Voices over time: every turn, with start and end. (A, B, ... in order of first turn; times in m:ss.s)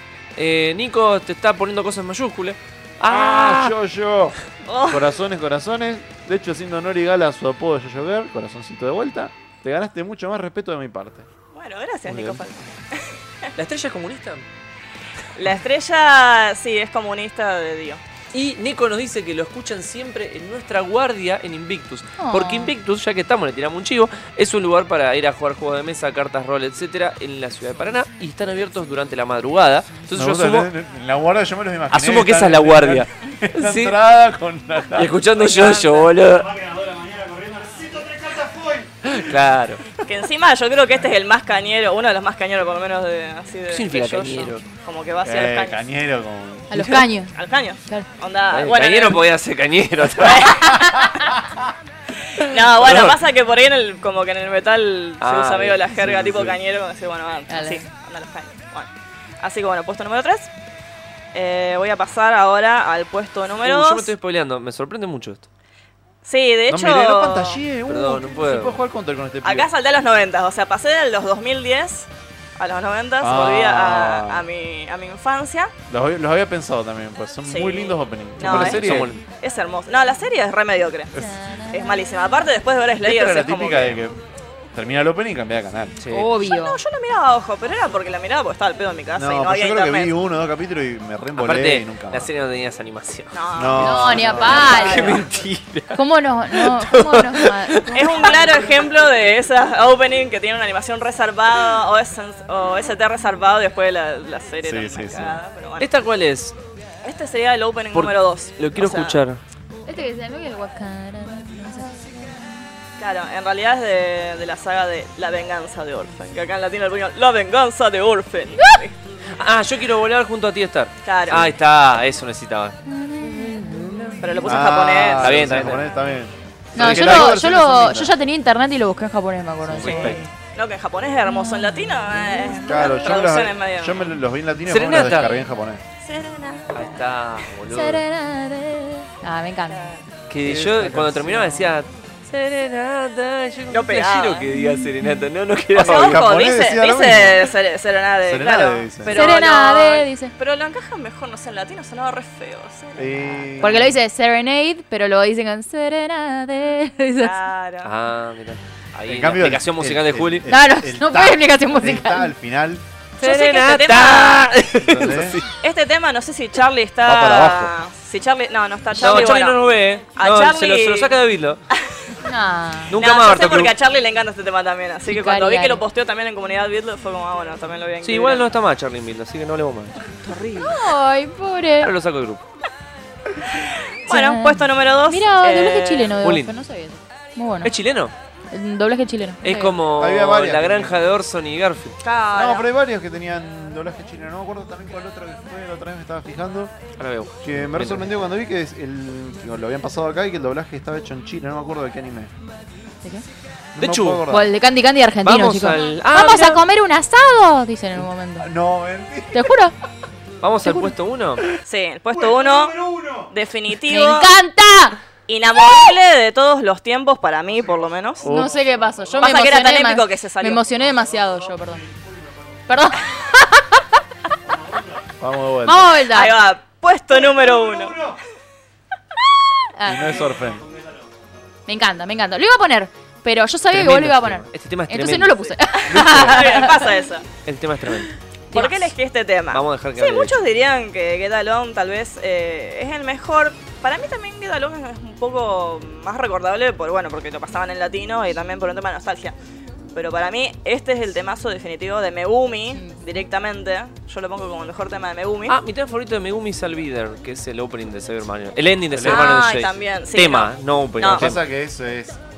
0:00.4-0:03.7 A
0:03.0-0:04.4 B
0:04.6-0:05.1 C
0:04.9-0:11.3 B
0:11.5-0:13.1 C
0:13.5-0:14.4 A
0:15.3-0:18.0 C
0:18.3-0:30.7 A
0:22.2-0:22.7 D
0:30.1-0:35.1 B
0:31.9-0:34.0 A
0:34.9-0:36.5 A
0:35.4-0:36.1 C
0:36.3-0:39.3 E
0:39.0-0:39.8 A
0:40.0-0:45.8 C
0:43.7-0:44.6 A
0:45.2-0:46.9 B
0:46.7-0:47.4 D
0:46.7-0:47.0 A
0:47.3-0:49.2 C
0:48.5-0:50.7 A
0:50.2-0:51.3 C
0:52.3-0:58.9 C
0:52.4-0:53.2 A
0:55.2-0:56.5 A
0:57.5-0:57.8 D
0:59.4-1:00.5 C
1:01.3-1:04.1 C
1:03.6-1:05.5 A
1:06.2-1:07.6 C
1:06.7-1:09.7 B
1:07.9-1:08.8 A
1:09.4-1:15.7 C
1:13.2-1:14.4 B
1:15.9-1:19.1 B
1:17.4-1:24.0 C
1:18.4-1:19.2 A
1:21.1-1:22.1 D
1:23.0-1:24.0 A
1:23.1-1:24.2 B
1:24.7-1:26.0 B
1:26.0-1:26.3 A
1:26.1-1:26.8 D
1:26.4-1:30.1 C
1:29.2-1:32.3 B
1:31.4-1:33.3 A
1:33.3-1:35.2 C
1:33.5-1:35.2 B
1:33.8-1:35.2 D
1:34.3-1:38.3 A
1:35.9-1:38.7 D
1:37.9-1:45.9 C
1:44.6-1:45.4 B
1:45.8-1:46.5 A
1:47.0-1:49.2 C
1:47.9-1:49.4 A
1:49.8-1:52.6 D
1:53.0-1:58.9 C
1:58.6-1:58.8 D
1:59.3-2:04.2 A
2:01.0-2:01.5 C
2:02.9-2:03.8 D
2:04.2-2:05.6 C
2:04.4-2:08.1 B
2:05.2-2:05.9 A
2:06.7-2:10.3 D
2:06.8-2:07.4 A
2:09.6-2:10.2 B
2:09.7-2:10.2 A
2:09.8-2:14.1 C
2:11.2-2:12.8 D
2:12.6-2:15.8 B
2:14.7-2:15.4 A
2:16.0-2:17.0 C
2:16.7-2:18.0 A
2:17.7-2:19.9 D
2:19.7-2:20.0 C
2:20.3-2:26.2 A
2:20.4-2:21.6 B
2:23.7-2:24.5 C
2:25.7-2:33.8 C
2:25.8-2:27.5 B
2:28.2-2:29.2 B
2:29.1-2:30.3 D
2:33.0-2:34.0 B
2:33.6-2:37.4 D
2:37.2-2:37.9 C
2:37.8-2:40.5 A
2:39.0-2:42.8 B
2:40.5-2:42.3 D
2:43.2-2:45.4 A
2:43.2-2:44.6 C
2:44.7-2:45.4 B
2:45.5-2:49.6 C
2:47.0-2:47.7 B
2:48.9-2:51.6 A
2:50.1-2:51.2 C
2:51.7-2:52.1 C
2:52.2-2:53.0 D
2:52.9-2:53.7 A
2:52.9-2:58.5 C
2:55.1-2:55.8 D
2:58.0-3:00.0 A
3:00.2-3:00.9 C
3:00.6-3:01.9 D
3:01.8-3:02.4 A
3:03.4-3:06.2 C
3:04.1-3:07.7 D
3:06.2-3:06.5 A
3:07.6-3:08.1 A
3:08.5-3:09.8 D
3:09.4-3:12.0 A
3:09.9-3:11.1 B
3:12.0-3:12.7 C
3:12.3-3:16.7 B
3:17.0-3:18.2 A
3:17.4-3:22.3 B
3:23.7-3:24.5 B
3:23.8-3:24.2 A
3:24.3-3:28.5 D
3:25.2-3:26.6 A
3:27.9-3:29.5 B
3:29.3-3:29.7 D
3:30.4-3:31.4 A
3:30.6-3:30.9 D
3:31.6-3:32.8 C
3:32.1-3:33.3 E
3:33.3-3:34.3 C
3:33.9-3:35.0 D
3:35.3-3:38.2 C
3:37.5-3:39.7 E
3:38.2-3:38.5 B
3:38.2-3:41.8 D
3:39.2-3:40.6 C
3:40.6-3:43.1 E
3:42.7-3:43.8 D
3:44.4-3:45.2 E
3:45.2-3:46.0 B
3:45.6-3:46.4 D
3:46.1-3:48.0 C
3:47.1-3:48.2 E
3:49.7-3:50.2 D
3:49.8-3:50.6 B
3:49.9-3:51.6 E
3:51.7-3:56.9 D
3:53.7-3:56.6 A
3:55.9-3:57.2 C
3:55.9-3:56.4 B
3:57.4-3:58.1 A
3:58.5-3:58.9 D
3:58.5-4:09.4 C
3:59.5-4:00.4 A
4:09.9-4:15.6 C
4:15.5-4:21.4 A
4:18.9-4:19.3 B
4:19.0-4:21.3 C
4:21.0-4:22.2 B